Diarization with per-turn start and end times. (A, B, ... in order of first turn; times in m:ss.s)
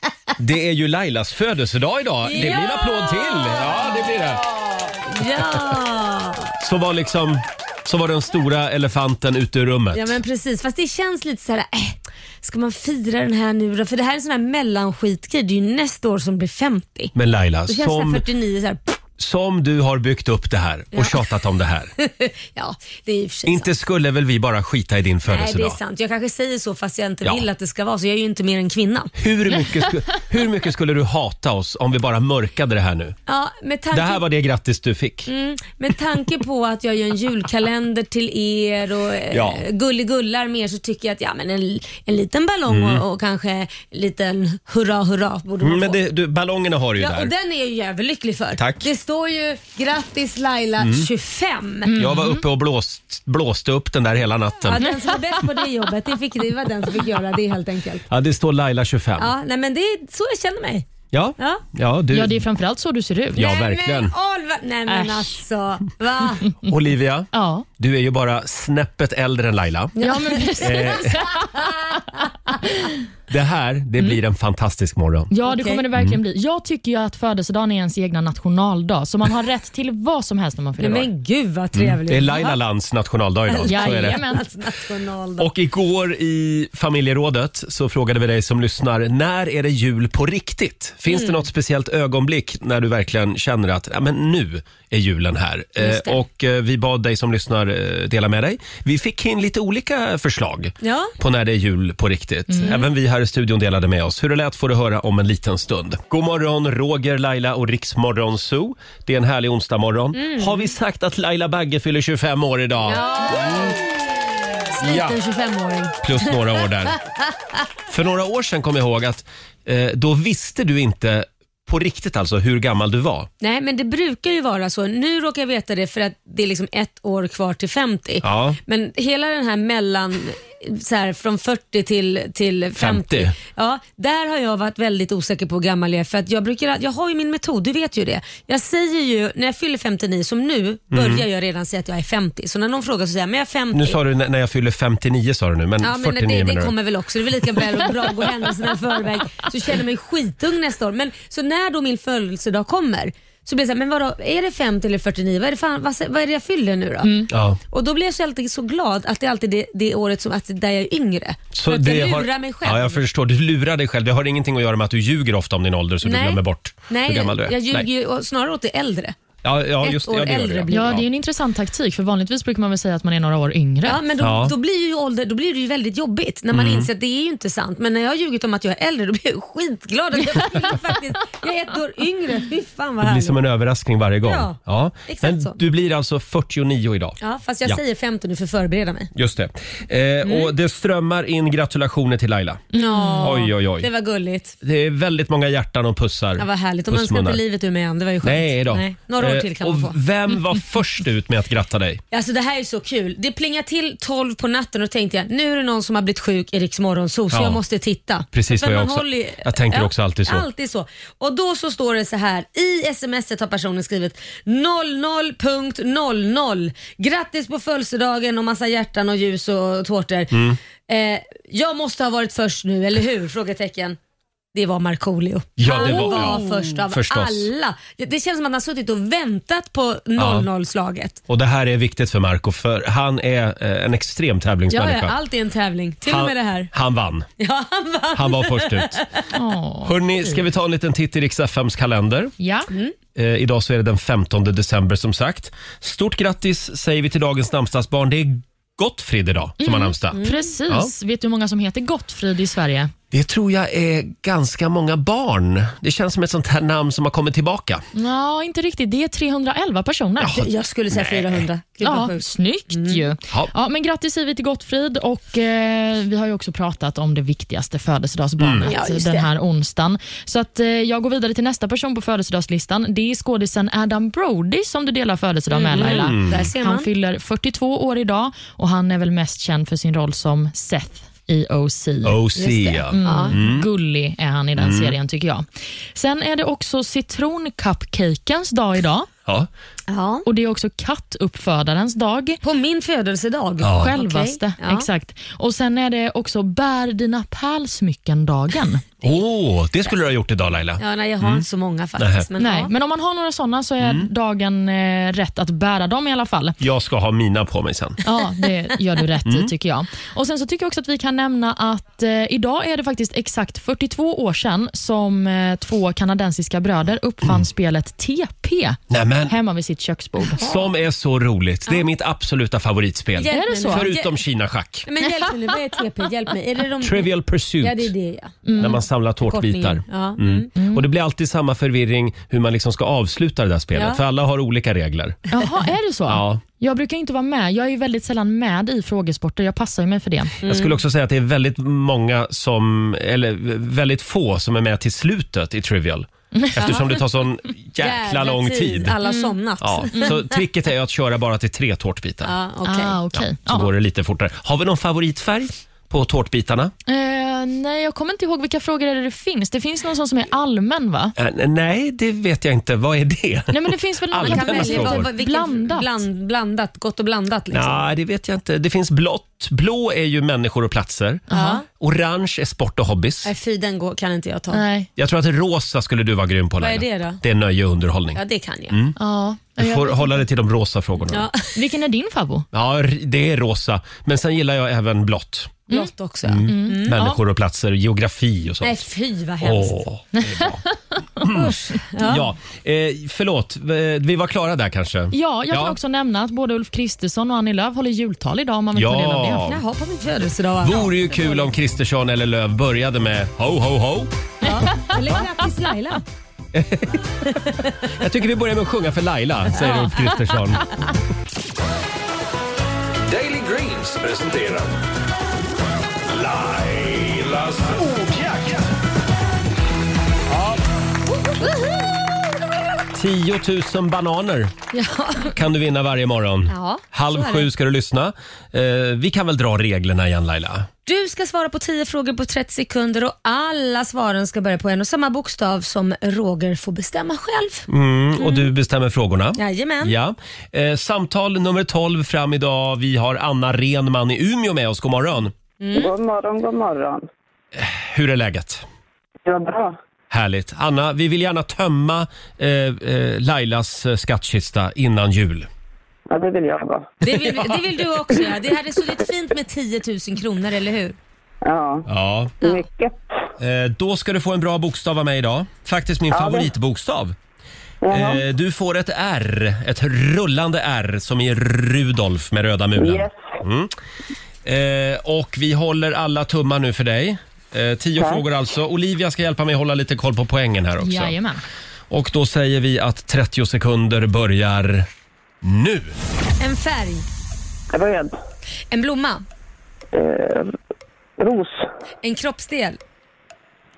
0:00.4-0:04.4 A
0:02.2-0:04.2 B
0:05.0-0:06.5 B
0:06.6-0:10.2 A
0:09.9-0:17.1 B
0:17.1-0:18.2 A
0:17.7-0:19.0 B
0:19.2-0:21.9 A
0:20.9-0:21.3 B
0:22.0-0:23.8 B
0:23.5-0:25.8 A
0:25.3-0:29.1 B
0:29.2-0:33.2 A
0:33.3-0:34.2 B
0:33.9-0:35.3 A
0:35.3-0:46.0 B
0:39.3-0:39.6 A
0:42.7-0:43.0 A
0:45.6-0:47.3 A
0:47.0-0:51.9 B
0:48.6-0:48.9 A
0:50.8-0:51.1 A
0:51.9-0:52.4 C
0:52.0-0:54.9 A
0:54.7-0:58.1 B
0:58.1-0:59.3 A
0:59.2-1:01.6 B
1:01.1-1:02.4 A
1:02.1-1:03.4 C
1:03.4-1:04.1 A
1:03.4-1:06.5 B
1:04.9-1:05.2 C
1:06.6-1:10.0 A
1:07.3-1:07.7 C
1:10.0-1:11.7 B
1:10.0-1:12.9 C
1:10.6-1:11.3 A
1:13.3-1:15.3 A
1:15.3-1:21.1 C
1:15.4-1:15.8 B
1:20.8-1:22.6 B
1:21.8-1:24.2 A
1:23.5-1:25.5 B
1:23.7-1:24.4 C
1:25.4-1:53.8 A
1:31.1-1:31.5 B
1:35.8-1:36.2 B
1:40.8-1:41.1 B
1:42.5-1:42.8 C
1:42.6-1:42.9 B
1:50.1-1:50.7 B
1:52.8-1:53.9 B
1:54.7-1:57.0 B
1:54.8-1:55.2 A
1:56.0-1:57.0 A
1:57.9-2:03.3 A
2:03.4-2:24.0 B
2:08.2-2:08.6 A
2:12.8-2:13.4 A
2:20.9-2:21.2 A
2:23.7-2:26.7 A
2:25.8-2:43.0 B
2:37.0-2:37.3 C
2:37.3-2:37.6 A
2:41.5-2:47.9 A
2:46.0-2:49.2 B
2:49.4-2:51.0 A
2:49.8-2:51.0 B
2:50.7-2:54.0 C
2:53.8-3:03.4 B
2:54.2-2:54.5 A
2:56.5-2:56.9 A
3:03.0-3:07.8 A
3:04.2-3:05.6 B
3:07.2-3:09.1 B
3:09.2-3:12.7 A
3:10.2-3:10.5 B
3:12.7-3:13.5 C
3:12.8-3:14.6 B
3:13.2-3:13.9 A
3:14.6-3:17.4 A
3:16.4-3:20.0 B
3:18.2-3:22.0 A
3:22.1-3:40.3 B
3:27.3-3:27.6 A
3:28.3-3:30.4 A
3:40.3-3:40.6 A
3:40.9-3:44.0 B
3:44.5-3:51.2 B
3:45.6-3:47.5 A
3:45.8-3:46.4 C
3:50.2-3:50.5 A
3:51.3-3:55.2 A
3:54.7-3:56.7 B
3:56.0-3:57.3 A
3:57.4-3:59.3 B
3:58.2-3:59.0 A
3:59.3-4:00.0 C
3:59.8-4:02.3 A
4:02.4-4:02.7 C
4:03.2-4:10.9 A
4:09.6-4:12.9 C
4:10.1-4:10.5 B
4:13.1-4:17.8 A
4:17.9-4:20.5 C
4:20.2-4:21.4 A
4:20.3-4:23.0 B
4:21.8-4:42.2 C
4:28.4-4:28.7 A
4:28.7-4:29.3 B
4:35.5-4:36.9 B
4:35.8-4:36.5 A
4:42.0-4:43.7 A
4:42.4-4:43.4 B
4:42.9-4:49.1 C
4:44.6-4:45.0 A
4:49.9-4:50.2 B
4:50.2-4:52.4 C
4:52.4-4:54.9 B
4:53.6-4:54.0 A
4:53.8-4:58.9 C
4:59.0-5:01.4 A
5:00.8-5:02.7 B
5:02.0-5:02.2 A
5:02.4-5:06.6 C
5:03.8-5:04.1 A
5:06.6-5:08.0 A
5:08.0-5:20.4 C
5:09.2-5:09.5 A
5:18.9-5:19.3 A
5:20.4-5:24.9 A
5:23.2-5:24.2 B
5:23.3-5:23.9 C
5:24.9-5:28.7 B
5:26.8-5:27.9 A
5:28.4-5:28.8 C
5:28.6-5:35.2 A
5:29.3-5:30.5 B
5:30.6-5:30.9 C
5:33.8-5:34.0 B
5:35.3-5:40.4 C
5:36.1-5:36.4 A
5:40.4-5:49.0 A
5:40.4-5:40.8 B
5:46.3-5:46.9 C
5:47.8-5:50.4 B
5:49.0-5:49.3 C
5:49.6-5:52.3 A
5:49.9-5:50.2 C
5:52.3-5:53.0 B
5:52.6-5:53.7 C
5:53.1-5:56.7 A
5:56.9-6:01.1 C
6:01.2-6:05.1 A
6:03.5-6:06.0 C
6:04.2-6:07.9 B
6:07.5-6:11.2 A
6:11.3-6:11.6 C
6:11.3-6:11.6 B
6:11.8-6:13.3 A
6:13.2-6:14.6 B
6:14.5-6:14.9 C
6:15.0-6:19.0 A
6:16.6-6:17.2 B
6:18.2-6:18.8 B
6:19.0-6:20.2 C
6:19.6-6:21.3 A
6:21.1-6:21.5 B
6:21.6-6:22.5 C
6:22.5-6:25.6 A
6:25.7-6:27.0 B
6:26.3-6:28.9 A
6:26.5-6:27.2 C
6:28.6-6:29.8 B
6:29.4-6:30.6 A
6:30.2-6:30.6 C
6:31.2-6:31.5 A
6:31.4-6:32.3 B
6:32.0-6:35.8 A
6:35.1-6:39.5 C
6:38.7-6:39.6 A
6:39.3-6:41.5 B
6:40.6-6:44.1 A
6:44.4-6:44.9 C
6:44.4-6:46.0 B
6:46.5-6:47.3 A
6:47.9-6:50.7 A
6:49.6-6:50.0 B
6:53.1-6:54.6 D
6:56.1-6:58.6 D
7:02.9-7:04.5 A
7:04.7-7:05.4 B
7:05.4-7:10.7 A
7:06.5-7:07.5 B
7:10.9-7:17.7 B
7:17.7-7:25.3 A
7:18.2-7:18.5 B
7:19.4-7:19.9 B
7:25.6-7:25.9 B
7:25.7-7:27.0 E
7:27.6-7:28.6 A
7:29.2-7:29.8 E
7:30.1-7:35.5 A
7:36.1-7:36.9 E
7:37.0-7:41.0 B
7:37.1-7:37.6 A
7:41.4-7:41.8 E
7:41.9-7:42.4 A
7:42.4-7:43.0 E
7:43.4-7:47.2 A
7:46.1-7:46.5 E
7:47.8-7:48.2 E
7:47.9-7:53.7 A
7:52.8-7:53.3 E
7:54.4-8:01.2 A
8:00.8-8:01.4 C
8:01.9-8:04.9 A
8:05.4-8:06.0 A
8:06.4-8:07.1 B
8:07.7-8:08.2 E
8:08.7-8:09.2 B
8:09.9-8:10.5 E
8:11.2-8:11.7 E
8:12.0-8:12.8 B